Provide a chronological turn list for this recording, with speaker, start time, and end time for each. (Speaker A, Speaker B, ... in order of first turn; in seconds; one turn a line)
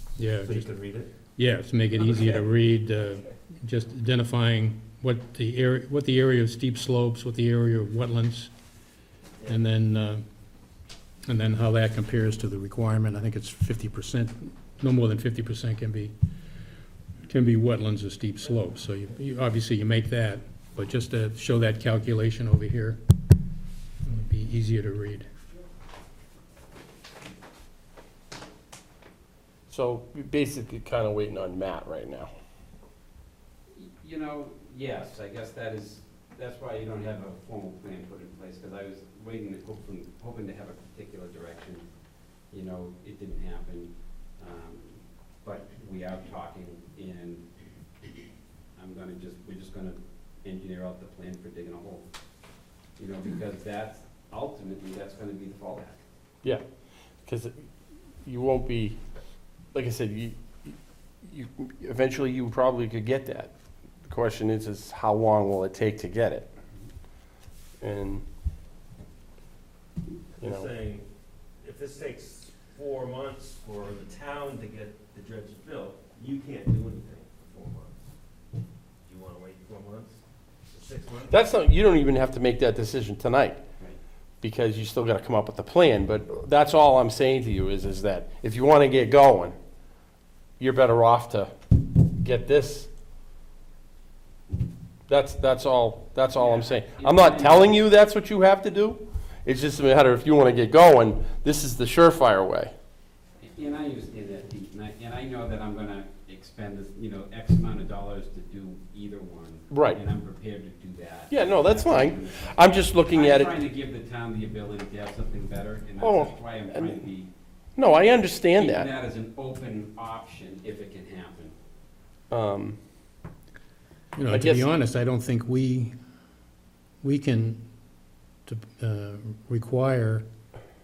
Speaker A: 0.2-0.7
Speaker B: 0.4-1.1
Speaker A: 1.4-8.5
Speaker A: 9.4-10.2
Speaker A: 11.2-16.1
Speaker A: 17.3-23.0
Speaker A: 24.0-25.3
Speaker C: 29.7-32.3
Speaker D: 33.7-41.8
Speaker D: 42.5-47.5
Speaker D: 48.8-52.1
Speaker D: 53.0-56.0
Speaker C: 57.2-57.6
Speaker C: 58.2-59.0
Speaker C: 59.7-63.5
Speaker C: 64.0-66.5
Speaker C: 67.8-68.2
Speaker B: 70.4-71.0
Speaker C: 70.4-70.7
Speaker B: 71.6-78.1
Speaker B: 79.0-81.4
Speaker C: 81.3-83.6
Speaker C: 84.4-89.5
Speaker C: 90.6-91.5
Speaker C: 92.0-92.9
Speaker C: 95.1-102.7
Speaker D: 96.3-97.7
Speaker D: 103.4-117.3
Speaker C: 109.7-110.0
Speaker C: 111.3-113.5
Speaker C: 116.0-117.0
Speaker C: 117.8-118.9
Speaker D: 118.5-121.5
Speaker C: 122.3-122.8
Speaker A: 124.1-125.9
Speaker C: 124.3-124.7
Speaker A: 127.0-127.6
Speaker A: 128.4-130.2